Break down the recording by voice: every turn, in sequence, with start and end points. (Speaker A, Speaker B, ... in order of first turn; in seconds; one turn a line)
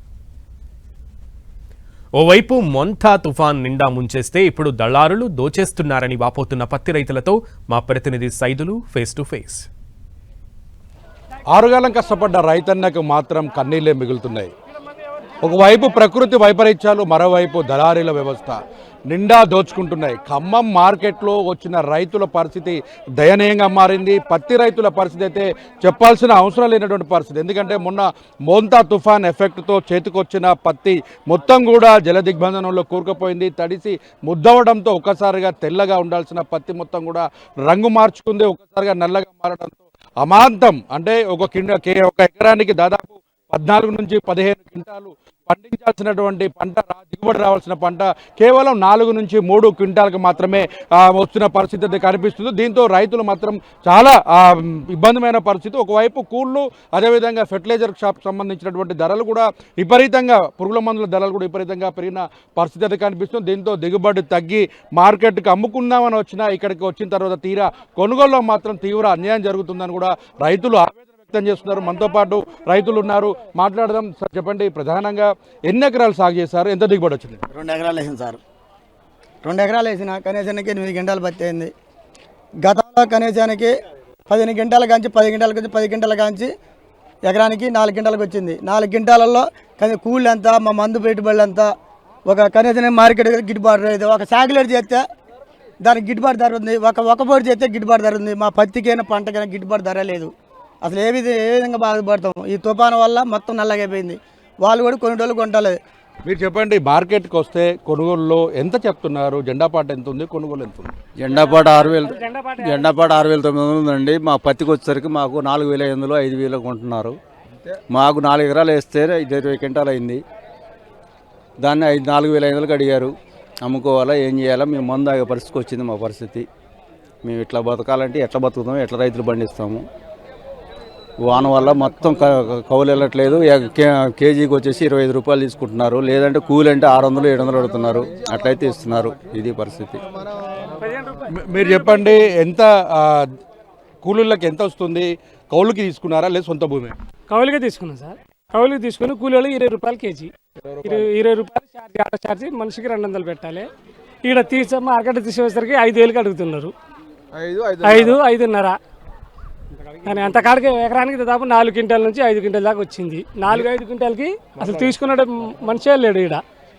Speaker A: 2.2-9.7
Speaker B: 11.5-14.5
Speaker B: 15.4-77.5
Speaker C: 77.5-78.4
Speaker C: 79.4-81.7
Speaker C: 82.6-83.8
Speaker C: 84.3-86.5
Speaker C: 87.3-91.7
Speaker C: 92.3-95.0
Speaker C: 95.8-100.3
Speaker C: 100.8-105.8
Speaker B: 106.3-111.0
Speaker D: 111.2-117.2
Speaker E: 111.3-113.2
Speaker D: 117.9-120.2
Speaker D: 121.6-126.5
Speaker D: 127.2-129.8
Speaker D: 131.2-140.0
Speaker E: 140.8-142.2
Speaker B: 141.3-143.3
Speaker B: 144.0-147.0
Speaker E: 147.3-153.7
Speaker E: 154.2-156.7
Speaker E: 157.8-158.8
Speaker E: 160.0-166.4